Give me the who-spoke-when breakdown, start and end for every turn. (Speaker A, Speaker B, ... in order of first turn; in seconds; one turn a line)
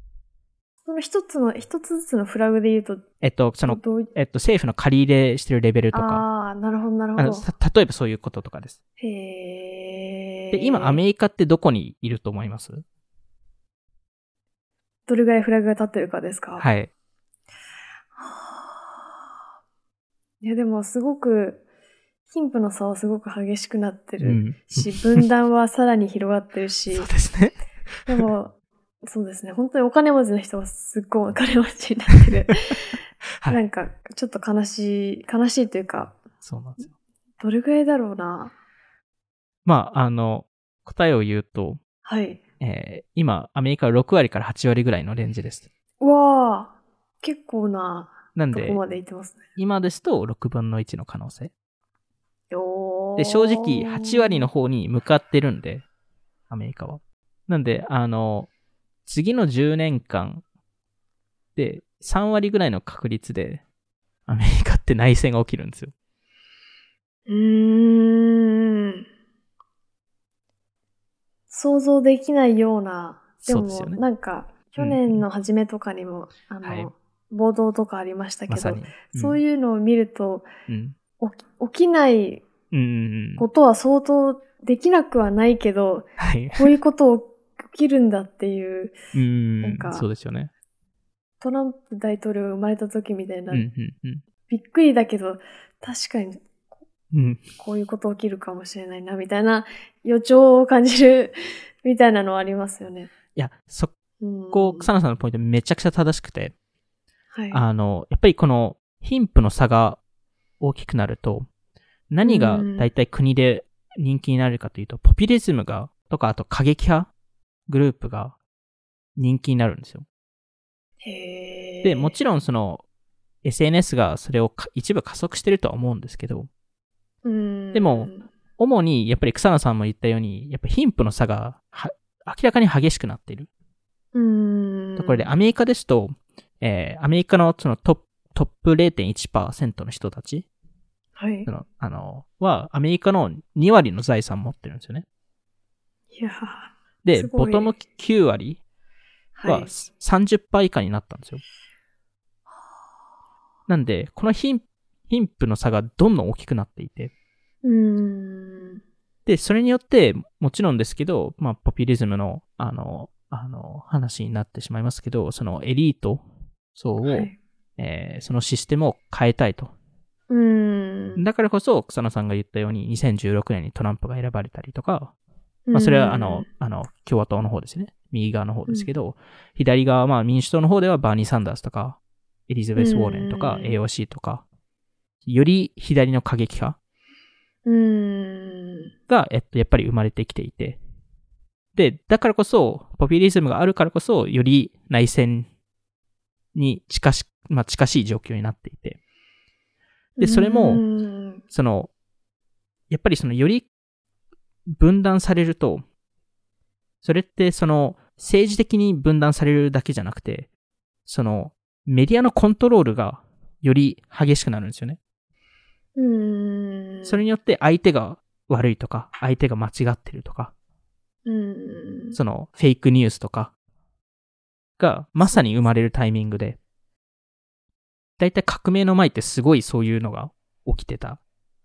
Speaker A: 0.8-3.0
Speaker B: 3.2-6.2
Speaker A: 3.6-4.1
Speaker A: 5.9-7.5
Speaker B: 7.2-8.8
Speaker A: 9.0-11.0
Speaker B: 10.5-12.8
Speaker A: 15.1-16.7
Speaker B: 16.6-16.9
Speaker A: 18.2-18.6
Speaker A: 20.4-21.6
Speaker A: 22.3-27.1
Speaker B: 24.2-25.2
Speaker B: 26.9-28.2
Speaker A: 28.1-32.9
Speaker A: 33.5-36.1
Speaker B: 36.4-36.9
Speaker A: 37.4-38.5
Speaker B: 39.6-41.8
Speaker A: 42.0-42.4
Speaker B: 42.6-45.7
Speaker A: 46.0-49.4
Speaker B: 48.3-48.8
Speaker B: 49.6-51.5
Speaker A: 52.5-54.5
Speaker B: 53.2-55.8
Speaker B: 56.5-58.5
Speaker B: 59.0-60.4
Speaker B: 61.5-63.6
Speaker B: 64.3-65.9
Speaker A: 67.3-69.0
Speaker A: 71.5-80.5
Speaker B: 73.4-74.0
Speaker B: 74.8-75.2
Speaker B: 76.6-76.9
Speaker B: 78.5-79.4
Speaker B: 80.7-81.0
Speaker A: 81.2-82.5
Speaker B: 82.7-83.5
Speaker A: 83.4-88.9
Speaker B: 86.2-86.8
Speaker B: 89.1-90.5
Speaker A: 89.6-90.0
Speaker A: 91.4-93.6
Speaker B: 93.5-94.2
Speaker A: 94.5-96.4
Speaker B: 97.1-97.4
Speaker A: 97.6-103.1
Speaker B: 103.3-103.9
Speaker A: 104.2-104.9
Speaker B: 104.5-106.5
Speaker A: 107.3-107.6
Speaker B: 107.5-110.0
Speaker B: 110.6-111.5
Speaker B: 112.1-117.1
Speaker A: 112.2-112.9
Speaker B: 117.7-118.3
Speaker B: 119.2-120.0
Speaker A: 121.0-122.2
Speaker B: 121.8-122.8
Speaker B: 123.4-126.5
Speaker A: 127.2-128.3
Speaker B: 127.7-133.5
Speaker A: 134.1-135.3
Speaker B: 135.0-140.4
Speaker A: 141.2-141.5
Speaker B: 141.5-145.1
Speaker A: 146.1-147.7
Speaker B: 147.0-148.6
Speaker A: 149.3-149.7
Speaker B: 149.4-151.4
Speaker B: 153.7-157.1
Speaker A: 157.6-158.8
Speaker B: 159.2-166.2
Speaker B: 166.8-169.7
Speaker A: 167.0-167.4
Speaker A: 170.3-171.2
Speaker B: 171.2-175.1
Speaker A: 175.7-176.5
Speaker B: 175.7-184.4
Speaker A: 182.8-183.8
Speaker B: 185.2-186.8
Speaker A: 187.6-188.9
Speaker B: 189.1-190.8
Speaker B: 191.7-195.5
Speaker B: 196.5-199.0
Speaker A: 200.2-201.4
Speaker B: 200.2-200.8
Speaker B: 201.5-201.9
Speaker B: 202.9-203.7
Speaker B: 204.7-205.8
Speaker B: 207.0-210.5
Speaker B: 211.1-215.0
Speaker A: 215.9-217.2
Speaker B: 217.0-220.5
Speaker A: 221.2-222.2
Speaker B: 222.1-223.5
Speaker B: 224.8-226.6
Speaker B: 228.2-231.2